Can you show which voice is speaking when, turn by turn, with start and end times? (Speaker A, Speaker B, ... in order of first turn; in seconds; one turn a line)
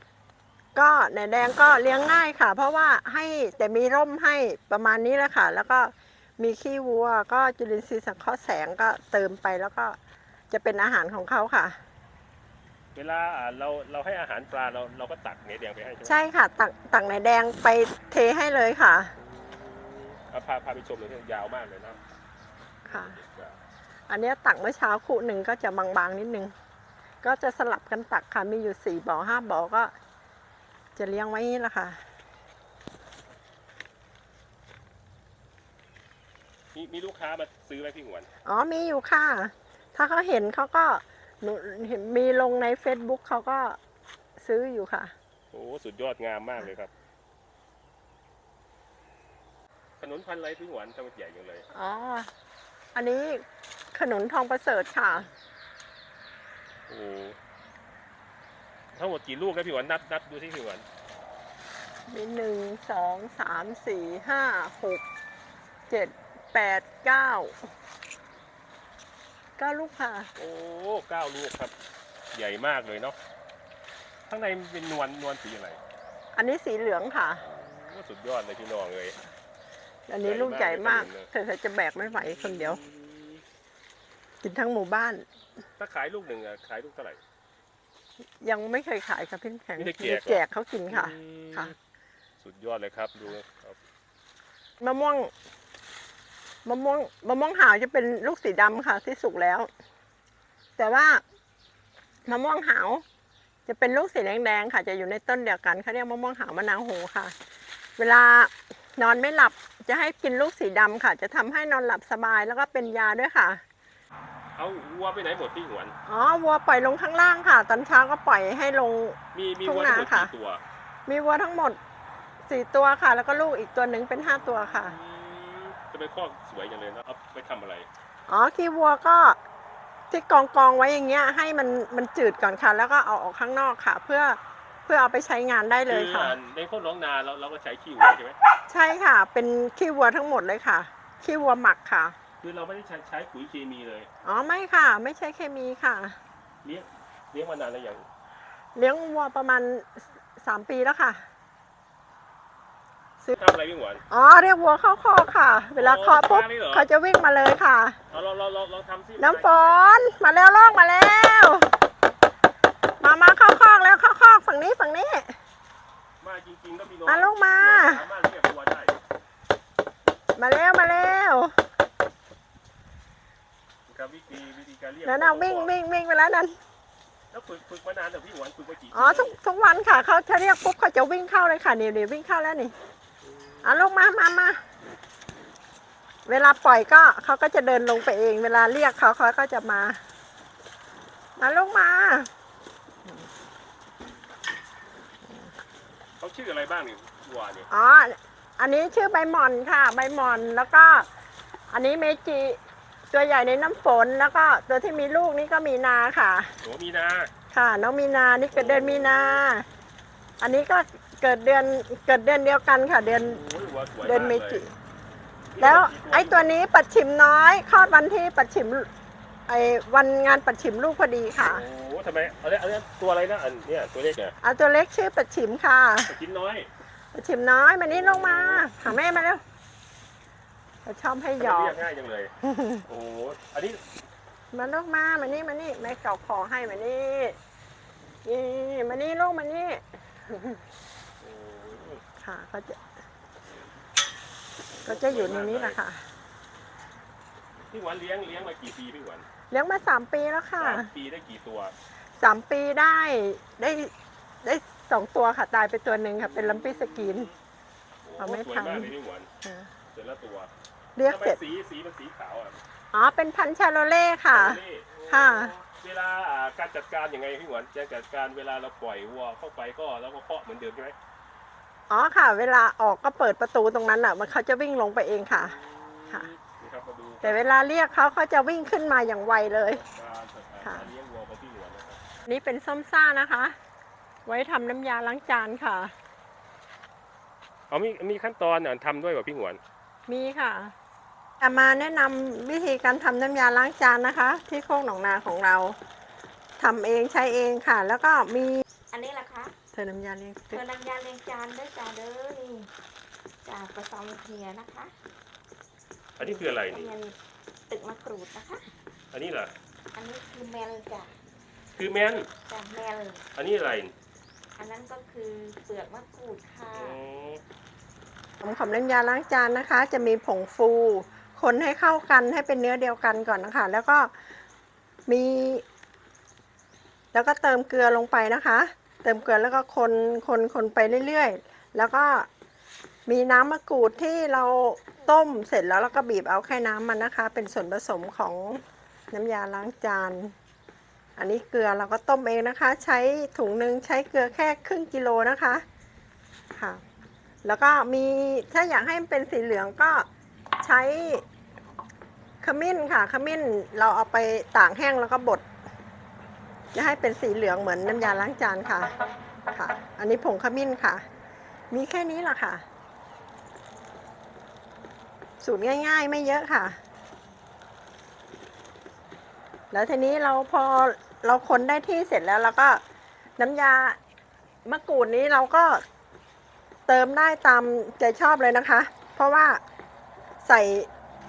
Speaker A: 0.8-10.0
Speaker A: 10.5-11.8
Speaker B: 12.9-16.2
Speaker A: 16.0-19.1
Speaker B: 19.4-22.0
Speaker A: 22.9-23.2
Speaker B: 22.9-23.6
Speaker A: 24.1-26.5
Speaker A: 27.2-29.9
Speaker A: 31.0-32.0
Speaker B: 36.7-38.3
Speaker A: 38.5-43.8
Speaker A: 44.4-45.1
Speaker B: 45.5-46.9
Speaker B: 50.0-51.7
Speaker A: 51.7-52.3
Speaker A: 52.9-55.3
Speaker B: 56.9-57.4
Speaker B: 59.0-60.9
Speaker A: 62.1-65.0
Speaker A: 65.9-67.7
Speaker A: 69.6-70.3
Speaker B: 70.4-71.7
Speaker B: 72.3-73.2
Speaker B: 74.3-75.8
Speaker A: 76.3-77.4
Speaker B: 77.4-79.2
Speaker A: 80.1-82.8
Speaker B: 80.2-81.3
Speaker B: 82.2-83.4
Speaker A: 84.4-85.2
Speaker B: 85.8-87.2
Speaker A: 88.4-91.7
Speaker B: 89.8-91.8
Speaker B: 92.4-93.8
Speaker A: 94.8-95.3
Speaker A: 96.7-99.7
Speaker A: 100.8-101.2
Speaker A: 102.2-103.0
Speaker A: 103.7-107.3
Speaker A: 108.0-113.6
Speaker B: 114.6-116.0
Speaker A: 116.1-120.3
Speaker B: 119.3-120.6
Speaker A: 121.1-121.8
Speaker A: 122.5-125.0
Speaker B: 124.3-127.9
Speaker A: 128.3-129.4
Speaker A: 130.1-136.4
Speaker B: 135.9-138.4
Speaker A: 138.7-142.2
Speaker B: 142.4-144.1
Speaker A: 144.2-146.2
Speaker B: 146.6-148.1
Speaker A: 148.8-151.2
Speaker B: 153.3-154.0
Speaker A: 154.1-158.0
Speaker B: 155.8-156.9
Speaker B: 158.1-159.8
Speaker A: 159.2-161.7
Speaker A: 163.0-165.4
Speaker B: 166.2-168.9
Speaker A: 167.1-168.0
Speaker A: 170.3-171.6
Speaker B: 173.9-175.7
Speaker A: 175.1-176.6
Speaker B: 177.3-179.4
Speaker A: 178.9-182.8
Speaker B: 183.2-183.7
Speaker A: 183.6-184.6
Speaker A: 186.2-190.0
Speaker A: 191.4-192.3
Speaker A: 195.2-195.5
Speaker B: 196.2-197.7
Speaker A: 197.7-201.1
Speaker A: 201.7-206.6
Speaker B: 206.6-207.3
Speaker A: 207.5-209.7
Speaker B: 208.5-209.4
Speaker A: 210.4-213.4
Speaker B: 213.0-214.6
Speaker A: 214.0-214.7
Speaker B: 215.5-216.5
Speaker A: 215.6-218.9
Speaker A: 219.5-221.7
Speaker B: 221.4-224.4
Speaker A: 224.4-226.2
Speaker B: 226.1-226.7
Speaker A: 227.1-229.4
Speaker B: 227.9-228.8
Speaker A: 230.8-231.8
Speaker B: 231.4-232.3
Speaker A: 232.4-232.8
Speaker B: 232.9-233.8
Speaker A: 234.5-237.4
Speaker A: 238.2-240.6
Speaker B: 241.2-242.0
Speaker A: 242.2-242.8
Speaker B: 244.8-245.8
Speaker A: 244.8-246.1
Speaker B: 247.7-249.2
Speaker A: 249.5-250.9
Speaker B: 250.6-251.8
Speaker A: 252.2-257.3
Speaker B: 256.2-257.4
Speaker B: 258.0-259.3
Speaker A: 258.2-258.9
Speaker A: 259.4-259.7
Speaker B: 259.9-260.5
Speaker A: 261.0-261.4
Speaker B: 261.0-262.6
Speaker A: 262.9-265.5
Speaker B: 264.3-271.0
Speaker A: 271.9-275.6
Speaker B: 275.3-277.4
Speaker A: 277.2-279.8
Speaker B: 279.7-282.0
Speaker A: 280.6-280.9
Speaker A: 282.3-283.6
Speaker A: 284.3-285.9
Speaker B: 287.7-289.6
Speaker A: 290.1-290.8
Speaker A: 291.4-295.8
Speaker A: 296.6-298.6
Speaker C: 298.9-299.6
Speaker A: 299.7-300.6
Speaker C: 300.5-302.7
Speaker C: 303.4-304.9
Speaker B: 306.2-306.9
Speaker C: 306.2-307.2
Speaker C: 307.7-308.7
Speaker B: 309.1-309.5
Speaker C: 309.9-311.1
Speaker B: 311.8-312.3
Speaker C: 312.5-313.2
Speaker B: 313.4-313.9
Speaker C: 314.6-317.0
Speaker B: 316.7-317.4
Speaker A: 318.4-324.1
Speaker A: 325.1-325.6
Speaker A: 327.1-332.3
Speaker A: 333.1-340.4
Speaker A: 341.2-345.6
Speaker A: 346.6-346.8
Speaker A: 347.4-350.1
Speaker A: 350.6-351.2
Speaker A: 352.4-355.5
Speaker A: 356.7-358.9
Speaker A: 359.5-361.1
Speaker A: 361.7-362.6
Speaker A: 365.4-366.8
Speaker A: 369.7-372.8
Speaker A: 373.4-374.0
Speaker A: 374.6-375.8
Speaker A: 376.9-379.6
Speaker A: 380.4-380.9